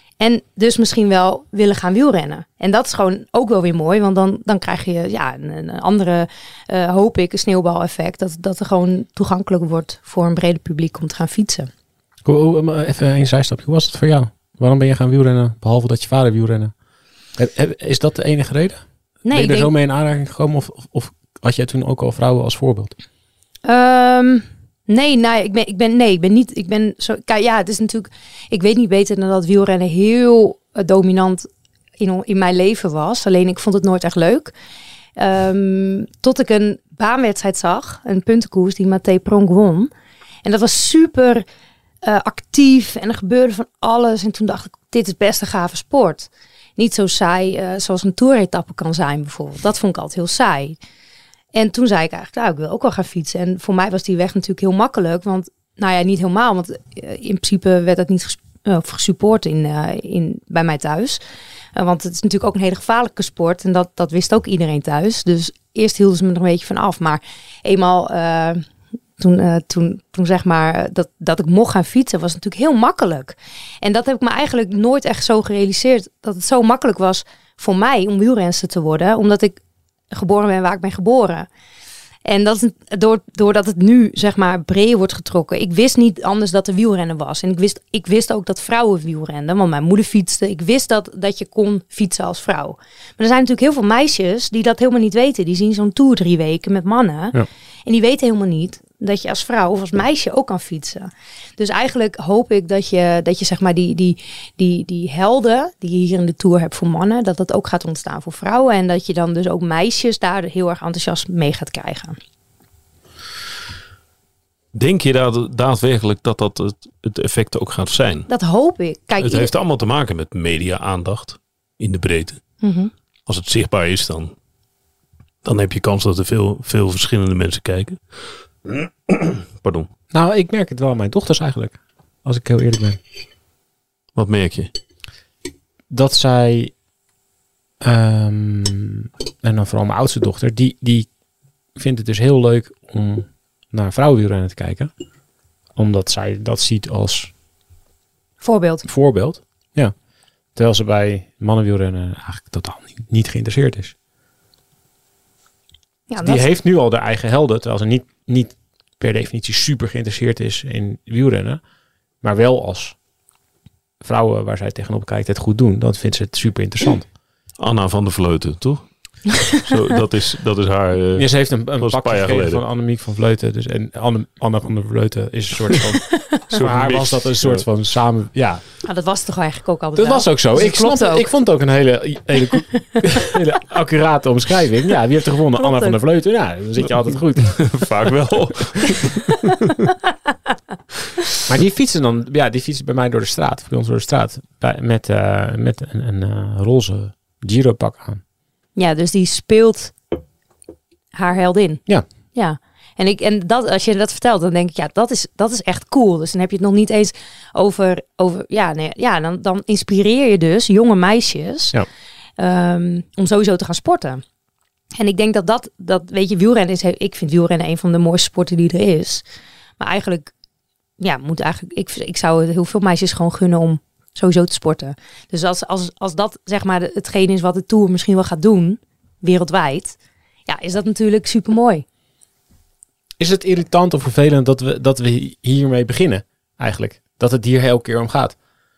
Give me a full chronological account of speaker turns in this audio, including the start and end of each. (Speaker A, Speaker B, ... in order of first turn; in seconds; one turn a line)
Speaker A: 0.2-11.7
Speaker B: 12.2-16.7
Speaker B: 17.4-22.9
Speaker A: 19.2-19.7
Speaker A: 23.6-31.5
Speaker A: 32.0-34.5
Speaker A: 35.1-39.9
Speaker A: 40.4-41.4
Speaker A: 42.0-50.8
Speaker A: 51.5-61.2
Speaker A: 61.7-68.6
Speaker A: 69.2-79.6
Speaker A: 80.1-81.5
Speaker A: 82.2-112.2
Speaker C: 114.7-118.3
Speaker A: 118.3-119.5
Speaker C: 119.2-122.6
Speaker A: 122.6-122.9
Speaker C: 123.2-124.3
Speaker C: 125.4-129.9
Speaker B: 130.1-133.0
Speaker C: 134.1-134.7
Speaker B: 135.9-136.7
Speaker B: 137.8-141.1
Speaker B: 141.8-144.9
Speaker B: 145.8-147.3
Speaker A: 148.4-148.9
Speaker B: 148.9-149.9
Speaker B: 150.5-153.9
Speaker A: 156.1-156.4
Speaker B: 156.2-161.6
Speaker B: 162.2-163.0
Speaker B: 164.0-167.1
Speaker C: 167.6-172.6
Speaker B: 171.2-178.6
Speaker C: 176.5-177.7
Speaker A: 178.8-181.3
Speaker B: 179.9-187.9
Speaker A: 185.6-186.0
Speaker C: 187.4-189.4
Speaker B: 191.5-198.2
Speaker A: 198.8-199.9
Speaker A: 201.1-211.8
Speaker A: 212.4-214.2
Speaker A: 215.0-219.2
Speaker A: 219.8-220.3
Speaker A: 221.0-231.8
Speaker B: 233.2-238.4